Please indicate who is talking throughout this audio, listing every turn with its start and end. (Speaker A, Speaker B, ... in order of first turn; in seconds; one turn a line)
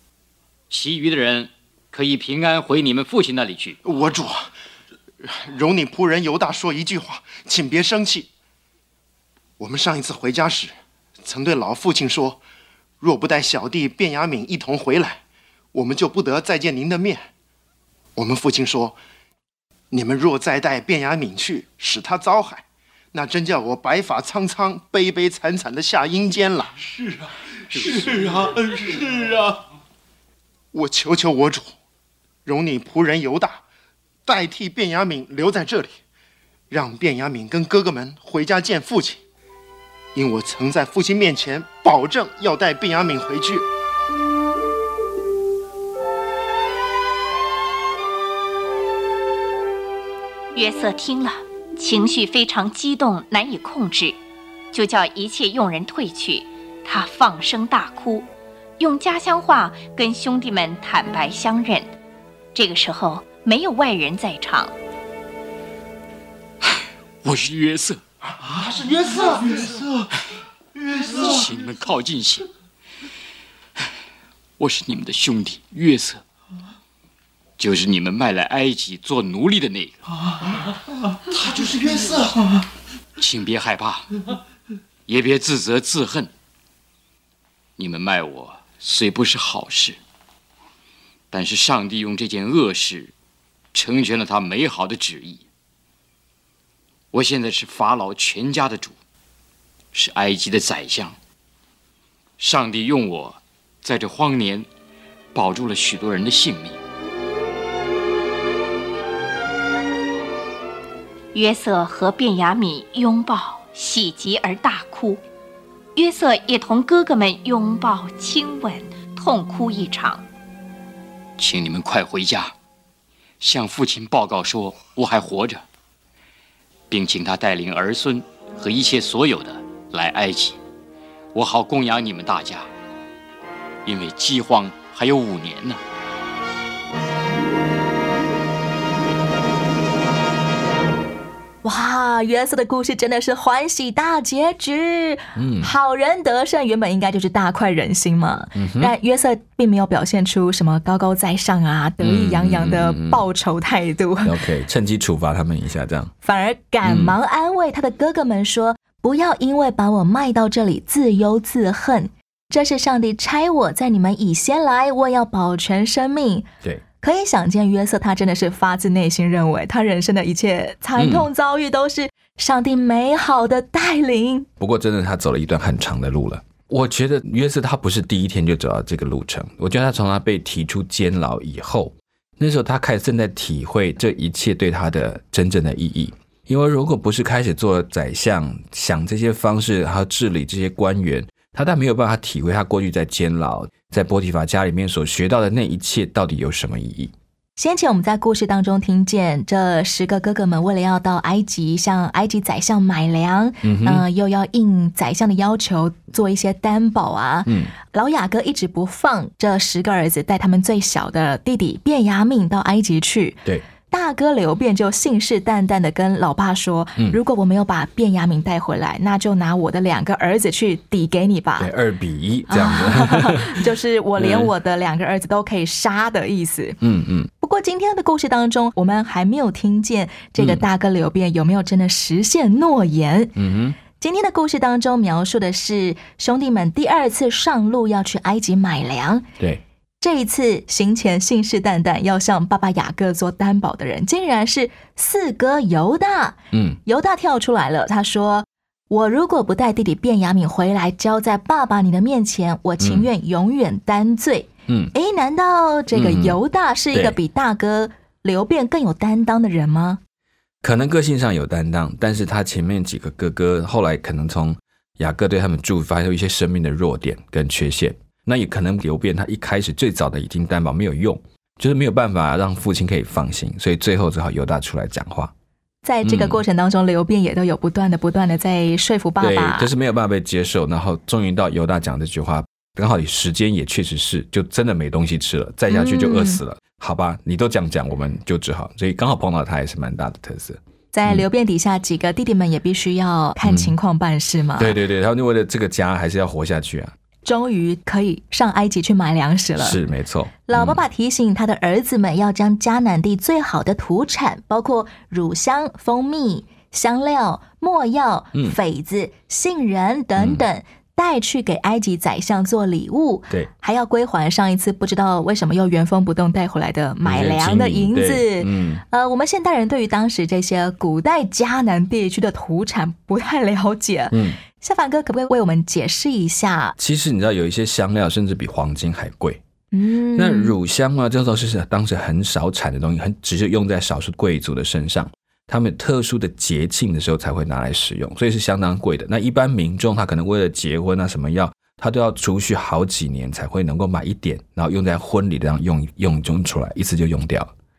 Speaker A: 0.7-3.8
Speaker B: 3.8-4.5
Speaker B: 5.2-8.3
Speaker B: 9.6-12.4
Speaker B: 13.0-15.2
Speaker B: 15.7-17.3
Speaker B: 18.1-19.0
Speaker B: 19.9-26.8
Speaker C: 27.0-29.6
Speaker B: 30.7-31.7
Speaker B: 32.4-33.6
Speaker B: 34.2-36.0
Speaker B: 36.7-39.2
Speaker B: 40.1-43.6
Speaker D: 50.5-54.2
Speaker D: 54.7-58.3
Speaker D: 58.8-61.9
Speaker D: 62.5-64.7
Speaker A: 67.2-68.0
Speaker B: 68.6-69.5
Speaker A: 71.0-72.5
Speaker A: 74.6-76.2
Speaker A: 77.6-80.0
Speaker A: 83.2-84.1
Speaker A: 85.1-86.3
Speaker A: 87.8-90.0
Speaker A: 91.3-93.1
Speaker A: 93.7-95.4
Speaker A: 97.1-99.0
Speaker A: 99.9-101.2
Speaker A: 102.4-104.7
Speaker A: 105.3-106.8
Speaker D: 111.3-115.2
Speaker D: 116.0-120.2
Speaker A: 121.4-122.5
Speaker A: 123.4-125.6
Speaker A: 126.9-130.6
Speaker A: 131.3-132.7
Speaker A: 133.8-135.8
Speaker E: 141.6-154.3
Speaker F: 145.3-145.7
Speaker F: 148.5-148.9
Speaker F: 152.0-153.2
Speaker F: 154.2-156.1
Speaker E: 156.2-166.5
Speaker F: 156.8-157.1
Speaker E: 167.0-174.5
Speaker F: 171.0-171.3
Speaker F: 174.6-197.1
Speaker E: 197.6-221.7
Speaker F: 203.6-204.0
Speaker F: 207.4-207.7
Speaker F: 221.6-224.5
Speaker E: 222.5-226.8
Speaker F: 226.8-227.3
Speaker E: 227.4-233.3
Speaker F: 230.4-230.6
Speaker F: 233.3-233.8
Speaker E: 234.0-239.2
Speaker E: 240.0-260.0
Speaker F: 246.5-246.8
Speaker F: 252.8-253.1
Speaker F: 255.9-256.4
Speaker F: 260.6-275.3
Speaker E: 275.8-279.7
Speaker F: 276.0-276.4
Speaker F: 279.2-291.2
Speaker E: 285.7-286.4
Speaker E: 290.9-294.8
Speaker F: 293.4-293.7
Speaker F: 294.6-296.9
Speaker E: 297.2-299.8
Speaker F: 299.6-300.8
Speaker E: 300.5-326.8
Speaker F: 310.2-310.4
Speaker F: 317.0-318.8
Speaker F: 324.1-324.4
Speaker F: 326.8-329.4
Speaker E: 329.7-330.5
Speaker F: 330.1-347.5